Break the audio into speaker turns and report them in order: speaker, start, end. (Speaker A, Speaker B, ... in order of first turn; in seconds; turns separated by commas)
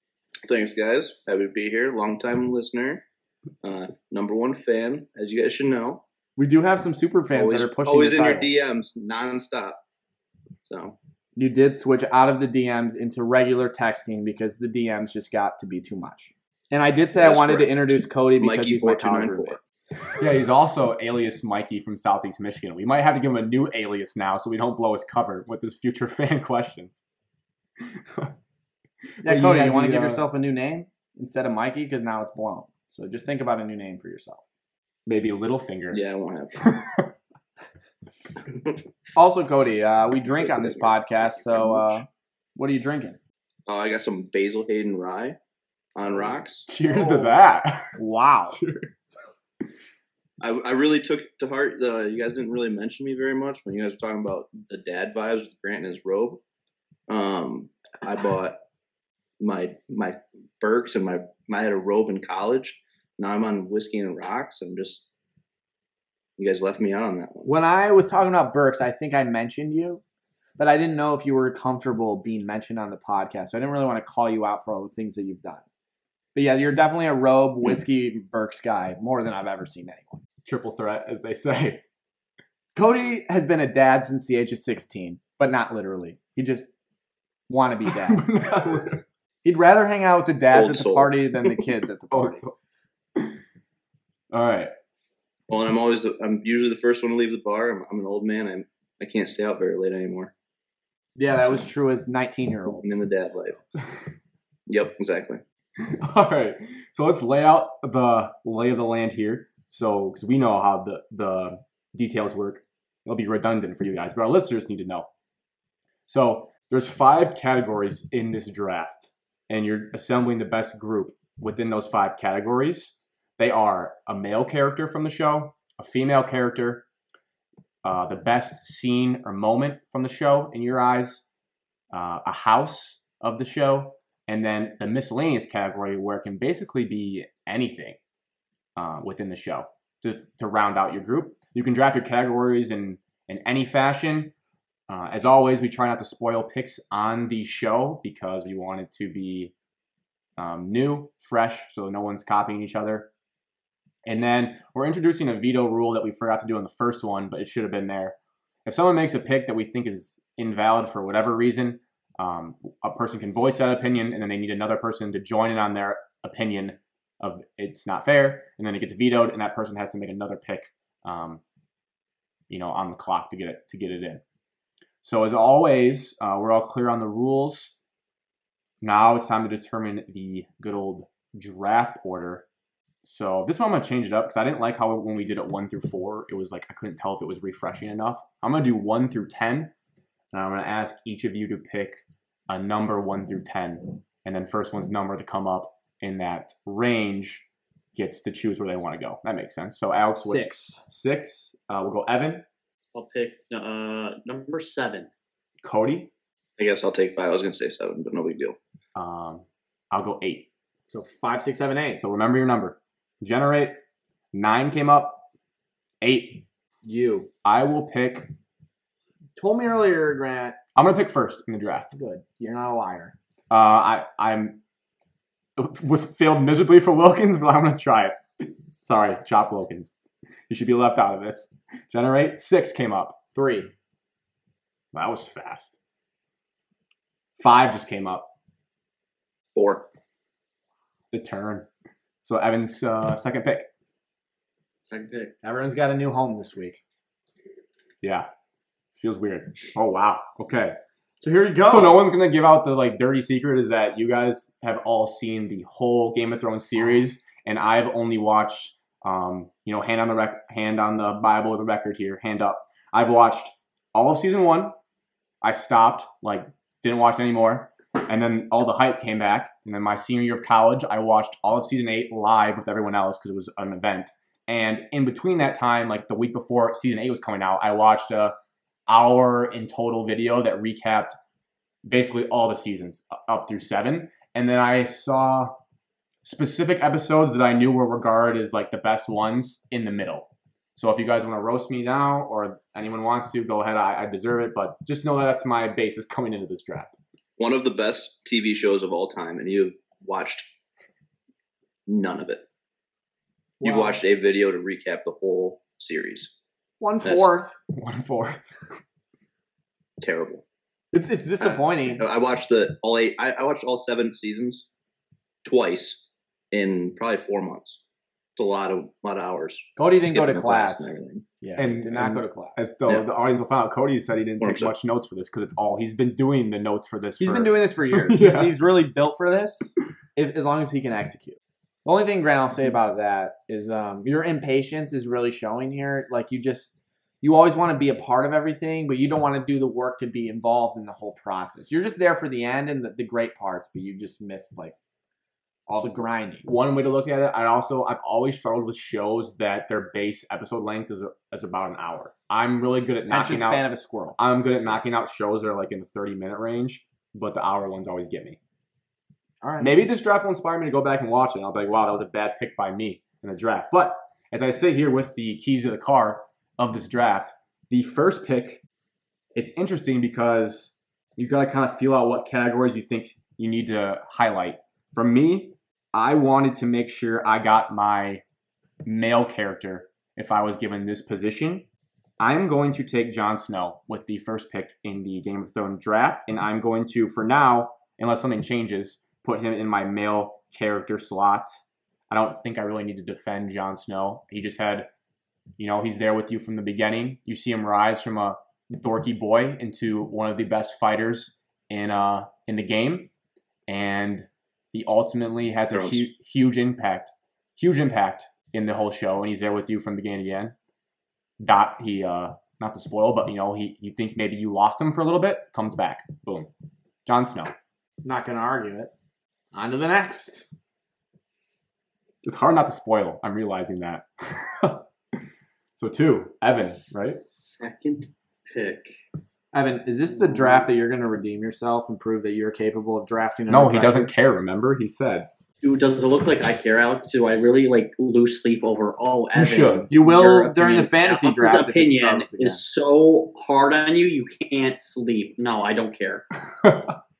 Speaker A: 0.4-3.0, Speaker A: 3.6-6.0, Speaker B: 6.4-8.5, Speaker A: 7.3-9.8, Speaker A: 10.6-10.9, Speaker B: 11.3-19.6, Speaker A: 17.1-19.6, Speaker C: 20.1-27.0, Speaker C: 27.8-28.3, Speaker C: 29.2-30.2, Speaker B: 29.2-34.4, Speaker C: 35.0-36.0, Speaker A: 35.9-36.7, Speaker C: 36.6-37.1, Speaker B: 39.1-42.0, Speaker A: 40.2-42.0, Speaker B: 42.5-43.2, Speaker A: 43.7-45.4, Speaker A: 46.0-47.1, Speaker C: 46.7-48.0, Speaker B: 48.0-48.6, Speaker C: 48.5-48.9, Speaker A: 50.4-56.4, Speaker A: 57.1-58.6, Speaker A: 59.4-65.1, Speaker A: 66.4-67.5, Speaker B: 67.5-70.0, Speaker B: 70.6-75.6, Speaker B: 76.3-80.2, Speaker C: 80.4-81.8, Speaker B: 82.7-86.7, Speaker B: 87.5-88.3, Speaker C: 87.9-89.0, Speaker B: 89.4-92.4, Speaker A: 90.5-91.2, Speaker C: 92.1-92.5, Speaker C: 94.3-94.7, Speaker A: 95.5-100.3, Speaker B: 101.2-103.3, Speaker A: 102.7-103.6, Speaker A: 104.7-105.4, Speaker C: 105.8-115.1, Speaker C: 116.1-126.8, Speaker C: 127.8-131.2, Speaker C: 131.9-138.0, Speaker C: 138.8-144.3, Speaker C: 144.9-149.5, Speaker C: 150.4-153.1, Speaker C: 154.1-171.4, Speaker C: 172.5-174.2, Speaker C: 175.0-177.7, Speaker C: 178.8-182.4, Speaker C: 183.0-189.7, Speaker C: 190.3-202.4, Speaker B: 200.2-200.7, Speaker D: 202.9-205.1, Speaker C: 205.6-206.1, Speaker A: 206.6-208.6, Speaker C: 208.9-210.5, Speaker B: 210.9-212.0, Speaker C: 212.0-213.8, Speaker C: 214.3-215.2, Speaker C: 216.0-216.4, Speaker B: 216.8-217.3, Speaker C: 217.4-218.3, Speaker B: 219.4-220.6, Speaker C: 220.8-221.9, Speaker B: 221.9-223.1, Speaker C: 223.5-224.6, Speaker C: 225.6-229.9, Speaker C: 230.5-233.7, Speaker B: 233.4-233.7, Speaker C: 234.9-235.7, Speaker C: 237.4-238.3, Speaker A: 239.5-239.8, Speaker C: 241.1-241.7, Speaker C: 242.2-243.7, Speaker D: 244.8-245.3, Speaker B: 245.4-246.8, Speaker C: 248.0-248.3, Speaker C: 248.9-250.8, Speaker B: 251.2-252.0, Speaker C: 251.7-264.7, Speaker C: 265.4-278.3, Speaker C: 278.9-281.2, Speaker C: 281.8-285.6, Speaker C: 286.2-297.0, Speaker A: 297.4-300.5, Speaker A: 301.9-302.4, Speaker B: 303.6-304.0, Speaker A: 303.6-306.3, Speaker B: 306.8-307.5, Speaker A: 307.0-307.3, Speaker C: 307.7-308.5, Speaker A: 310.0-310.4, Speaker B: 310.9-312.0, Speaker A: 311.4-314.7, Speaker A: 315.4-317.8, Speaker A: 318.4-321.2, Speaker B: 319.8-322.6, Speaker C: 321.6-328.5, Speaker A: 324.4-324.7, Speaker B: 327.2-344.7, Speaker B: 345.7-346.4, Speaker C: 345.8-353.6, Speaker B: 353.1-354.2, Speaker C: 354.2-358.4, Speaker B: 359.4-359.7, Speaker C: 359.6-368.6, Speaker C: 369.3-378.2, Speaker C: 378.8-381.6, Speaker C: 382.2-391.5, Speaker C: 392.1-394.9, Speaker C: 395.6-403.1, Speaker C: 403.7-410.5, Speaker A: 405.7-406.0, Speaker C: 411.4-416.5, Speaker C: 417.1-417.5, Speaker B: 418.0-418.9, Speaker B: 419.5-420.4, Speaker C: 422.2-424.8, Speaker C: 425.8-427.2, Speaker D: 426.6-429.0, Speaker B: 429.5-434.1, Speaker D: 430.1-430.7, Speaker C: 433.5-435.3, Speaker D: 435.6-446.2, Speaker C: 439.3-439.9, Speaker B: 439.9-442.6, Speaker C: 446.6-446.9